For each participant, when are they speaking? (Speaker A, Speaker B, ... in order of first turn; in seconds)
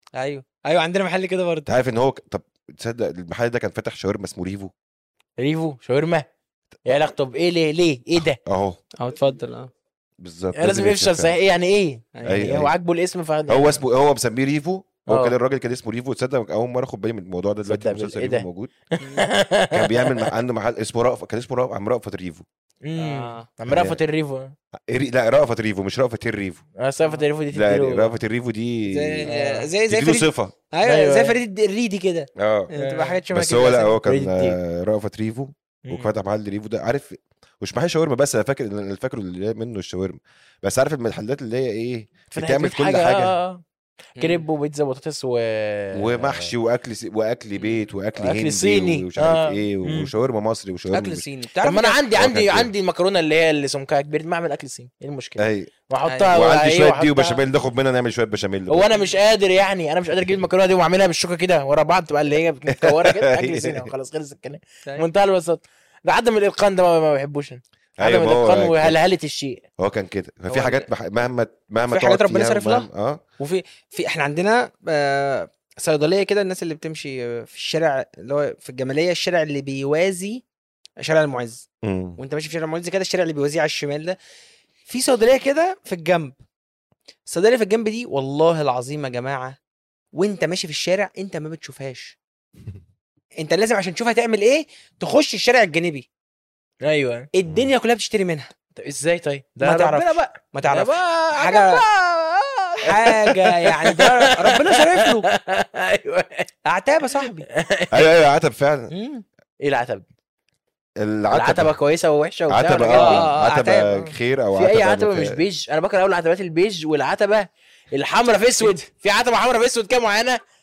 Speaker A: 0.2-1.7, 9.0-9.7, 12.2-12.5, 19.0-19.3, 23.0-23.5, 28.9-34.0, 44.1-44.4, 50.9-52.0, 56.1-56.3, 70.5-70.9, 71.9-72.9, 73.4-80.4, 81.0-81.7, 82.2-84.2, 84.9-86.4, 87.3-89.6, 90.1-92.2, 93.4-96.1, 97.3-98.5, 99.6-101.8, 102.8-105.3, 106.7-107.5, 108.9-109.2, 112.9-114.2
Speaker B: 1.7-4.7, 8.4-8.8, 10.2-11.3, 12.3-12.7, 13.5-18.7, 19.7-22.4, 23.7-24.0, 24.9-26.6, 27.5-29.3, 29.9-30.5, 32.4-32.7, 33.3-43.4, 45.9-51.2, 52.1-52.7, 55.4-55.7, 56.3-58.9, 62.7-63.9, 68.0-69.0, 69.8-73.2, 81.8-82.2, 107.9-108.9, 111.0-111.8, 112.5-115.4
Speaker C: 5.4-6.3, 6.9-8.4, 10.6-13.8, 15.1-15.4, 17.6-20.3, 22.8-24.6, 26.8-28.1, 29.3-29.7, 30.8-31.4, 32.8-33.2, 34.0-34.6, 35.9-36.1, 42.3-43.6, 44.2-46.5, 48.2-50.1, 51.6-57.4, 58.7-69.6, 96.8-97.3, 98.8-106.5, 107.2-108.2, 109.6-110.1, 111.3-113.3, 114.5-120.4